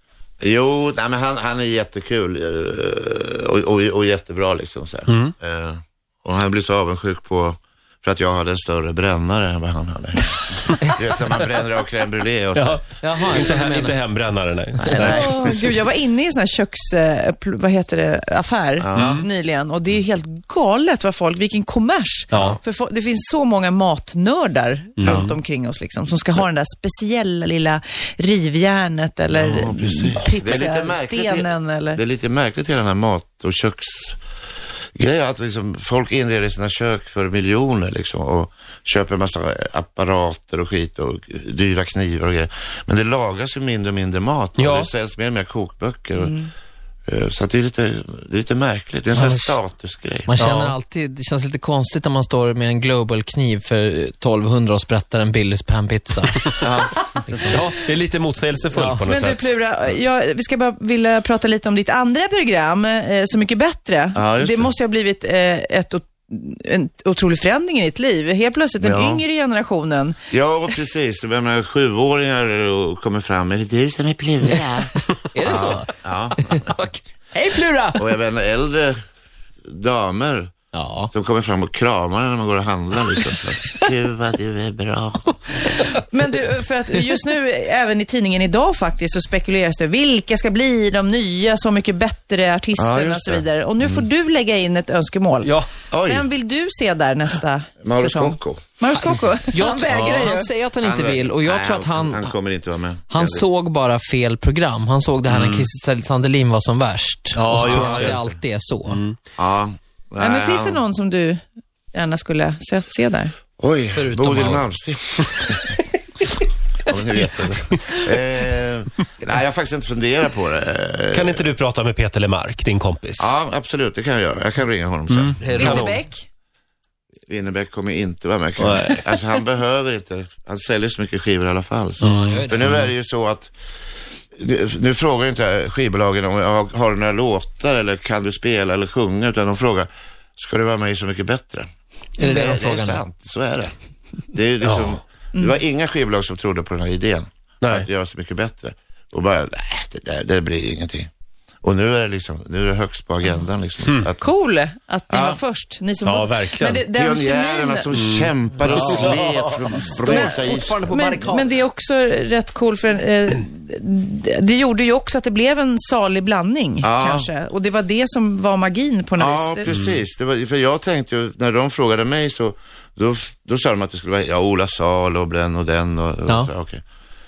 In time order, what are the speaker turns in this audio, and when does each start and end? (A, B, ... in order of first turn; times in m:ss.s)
0:00.4-0:13.5 A
0:05.1-0:05.3 B
0:12.6-0:15.2 B
0:13.0-0:14.0 C
0:14.8-0:15.7 A
0:15.0-0:32.0 D
0:18.8-0:19.2 A
0:18.9-0:19.2 B
0:22.3-0:22.6 A
0:22.3-0:22.6 B
0:25.0-0:25.3 B
0:29.3-0:34.2 A
0:35.0-0:46.4 A
0:44.6-0:44.9 B
0:46.2-0:46.5 D
0:47.1-0:50.3 A
0:49.1-0:49.6 C
0:50.3-0:56.6 C
0:50.4-0:50.7 B
0:56.6-0:57.7 A
0:57.5-0:59.5 B
0:58.7-0:59.0 C
0:59.0-1:10.2 D
1:04.1-1:04.7 A
1:08.8-1:09.2 A
1:10.3-1:16.8 A
1:15.2-1:18.1 C
1:18.0-1:19.0 A
1:19.6-1:20.5 A
1:20.7-1:21.1 C
1:21.1-1:25.8 A
1:25.9-1:35.5 D
1:32.8-1:34.0 A
1:35.4-1:35.7 B
1:35.9-1:36.3 A
1:36.0-1:40.5 D
1:37.8-1:38.7 A
1:39.5-1:42.3 C
1:40.8-1:43.4 A
1:43.1-1:49.0 C
1:45.3-1:45.7 B
1:47.3-1:48.2 B
1:47.5-1:48.4 A
1:48.9-1:49.2 B
1:49.4-1:50.8 A
1:50.2-1:51.4 D
1:51.9-1:53.3 D
1:53.6-1:55.8 A
1:53.9-1:54.6 C
1:56.8-2:01.5 A
2:01.1-2:03.3 B
2:03.2-2:05.8 A
2:05.1-2:06.0 B
2:05.4-2:06.0 C
2:05.6-2:06.2 D
2:07.3-2:13.5 A
2:08.6-2:09.0 B
2:12.0-2:12.9 C
2:12.1-2:12.4 B
2:14.3-2:21.7 A
2:22.2-2:23.0 C
2:22.2-2:23.7 A
2:24.3-2:31.1 A
2:24.6-2:25.0 B
2:25.3-2:25.6 D
2:31.6-2:34.2 A
2:33.8-2:34.1 B
2:34.2-2:37.9 D
2:35.1-2:35.4 A
2:36.0-2:36.8 B
2:36.9-2:40.8 A
2:37.9-2:39.0 B
2:38.6-2:41.6 C
2:40.0-2:49.6 D
2:46.8-2:47.3 A
2:49.2-2:56.8 A
2:49.7-2:50.0 B